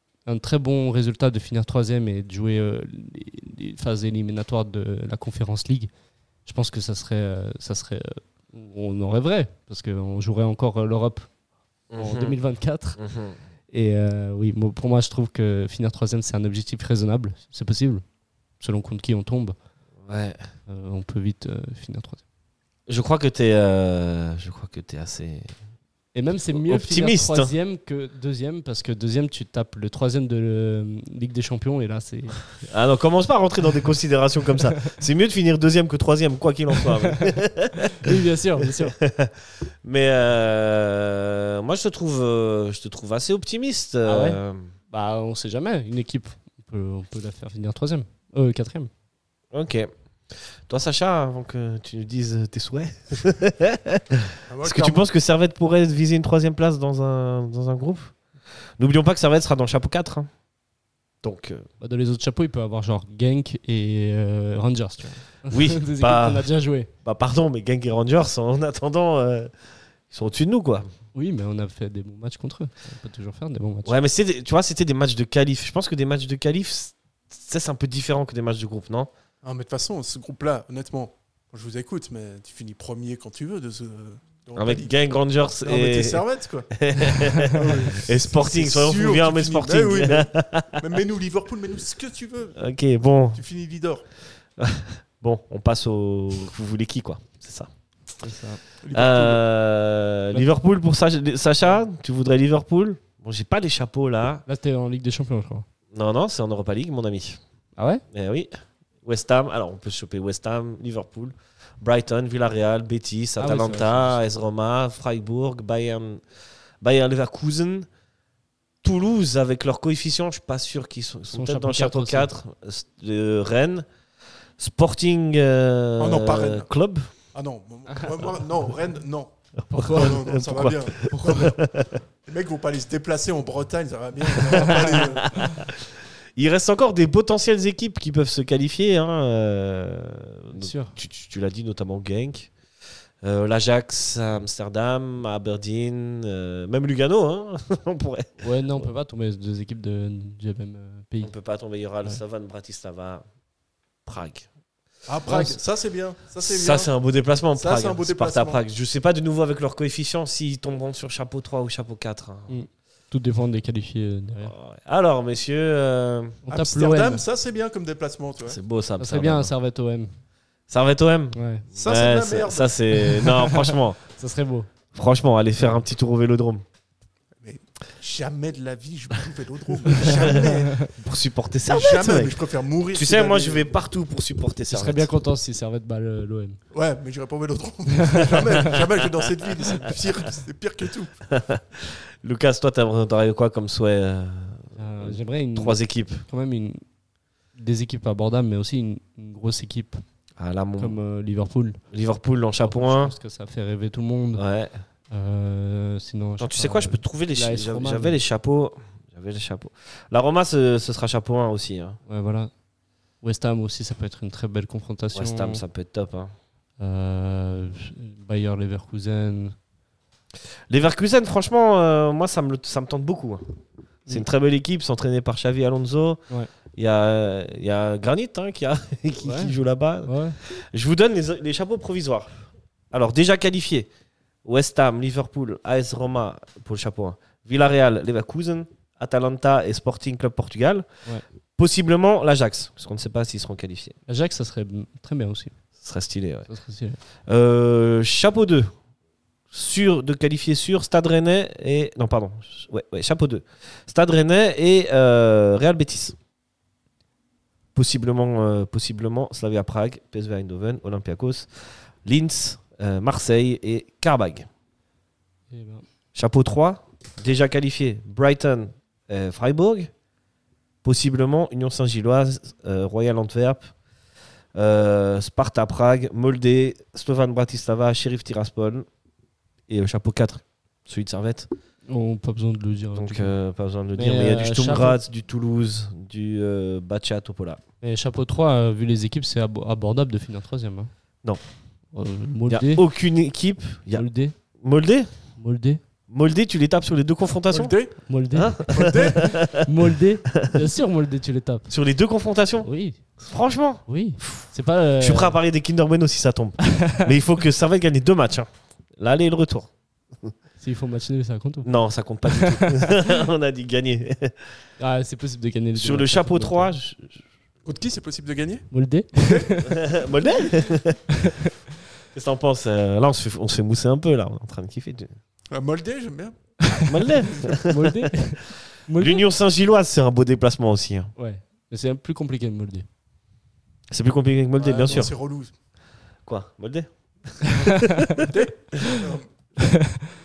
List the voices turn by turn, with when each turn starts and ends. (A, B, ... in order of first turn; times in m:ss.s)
0:00.2-0:05.9 A
0:06.4-0:11.3 A
0:11.9-0:12.4 B
0:12.0-0:13.0 A
0:13.0-0:13.4 B
0:13.7-0:18.0 A
0:18.6-0:19.6 A
0:20.0-0:20.4 B
0:20.7-0:22.2 A
0:22.9-0:25.5 B
0:26.1-0:32.4 A
0:26.5-0:27.5 B
0:32.6-0:44.7 B
0:38.0-0:39.0 A
0:44.0-0:44.4 A
0:44.9-0:48.9 A
0:49.5-0:58.1 B
0:54.5-0:55.0 C
0:58.8-1:00.3 B
1:01.2-1:01.7 B
1:01.8-1:06.9 A
1:05.5-1:09.5 B
1:10.1-1:10.9 B
1:11.1-1:14.0 A
1:13.8-1:19.1 B
1:19.4-1:25.0 C
1:24.5-1:26.2 B
1:25.6-1:26.7 C
1:26.7-1:31.0 B
1:27.5-1:32.6 C
1:32.6-1:33.4 B
1:33.3-1:34.0 C
1:34.6-1:37.7 B
1:38.2-1:38.6 A
1:38.8-1:39.4 C
1:38.9-1:44.4 B
1:44.5-1:45.6 A
1:45.9-1:47.4 B
1:47.8-1:48.0 A
1:48.1-1:56.2 B
1:53.4-1:54.2 A
1:56.8-1:57.9 B
1:58.8-2:03.9 B
2:01.3-2:02.3 A
2:04.6-2:07.1 B
2:06.0-2:06.7 C
2:07.3-2:09.3 C
2:09.7-2:12.0 B
2:09.7-2:10.2 A
2:09.9-2:11.7 C
2:12.2-2:15.4 C
2:14.4-2:22.5 B
2:20.5-2:21.0 A
2:23.2-2:28.9 B
2:28.4-2:31.3 A
2:31.2-2:33.2 B
2:34.0-2:34.5 B
2:35.1-2:36.9 C
2:35.3-2:35.6 A
2:36.4-2:42.6 B
2:37.5-2:38.6 C
2:42.5-2:44.5 A
2:44.4-2:46.4 B
2:46.4-2:47.2 A
2:46.5-2:48.6 C
2:48.4-2:49.5 B
2:49.0-2:50.1 A
2:50.7-2:54.0 B
2:51.3-2:51.6 A
2:51.8-2:52.7 C
2:52.9-2:54.7 A
2:54.9-2:56.6 B
2:57.4-3:00.9 C
2:59.9-3:02.4 B
3:01.7-3:03.7 C
3:02.9-3:05.1 B
3:04.7-3:06.6 A
3:06.7-3:11.2 C
3:08.1-3:08.5 A
3:11.3-3:16.2 B
3:14.8-3:16.8 A
3:17.6-3:20.0 A
3:20.4-3:21.0 B
3:20.8-3:21.8 A
3:21.9-3:23.1 B
3:22.6-3:24.4 A
3:24.4-3:24.8 B
3:25.1-3:28.2 A
3:26.4-3:32.0 B
3:32.1-3:32.5 A
3:33.2-3:35.6 A
3:35.1-3:36.3 B
3:36.8-3:39.6 A
3:40.7-3:43.4 B
3:44.1-3:46.2 B
3:46.8-3:53.9 B
3:49.2-3:50.4 A
3:54.4-4:00.9 B
4:01.6-4:04.0 B
4:04.1-4:05.6 A
4:05.8-4:06.5 B
4:06.5-4:07.0 A
4:07.2-4:08.7 B
4:09.5-4:16.2 B
4:17.7-4:21.5 B
4:22.0-4:24.5 B
4:25.5-4:25.8 A
4:26.1-4:29.9 B
4:30.8-4:33.7 B
4:34.5-4:38.9 B
4:39.7-4:41.5 B
4:41.9-4:43.3 A
4:42.9-4:47.6 B
4:43.9-4:45.0 A
4:47.8-4:50.9 A
4:51.9-4:52.8 A
4:52.5-4:55.1 B
4:53.9-4:54.3 A
4:55.4-4:55.8 A
4:56.1-4:57.8 B
4:57.5-4:58.0 C
4:58.1-5:01.7 A
4:58.3-4:59.6 B
4:58.7-4:59.3 C
5:01.7-5:10.3 B
5:02.6-5:03.0 A
5:03.9-5:05.4 A
5:06.7-5:07.1 A
5:10.6-5:11.7 A
5:11.6-5:14.6 B
5:12.3-5:13.0 A
5:14.8-5:16.7 A
5:15.8-5:17.2 B
5:17.6-5:19.5 C
5:18.7-5:19.8 A
5:19.7-5:21.0 B
5:21.1-5:21.4 A
5:22.1-5:25.2 B
5:25.5-5:26.4 C
5:26.7-5:28.1 B
5:27.6-5:29.2 A
5:28.9-5:31.1 B
5:31.2-5:32.8 A
5:33.9-5:35.1 B
5:34.6-5:35.5 C
5:36.2-5:38.3 B
5:37.6-5:38.0 A
5:38.2-5:39.3 C
5:39.7-5:40.0 A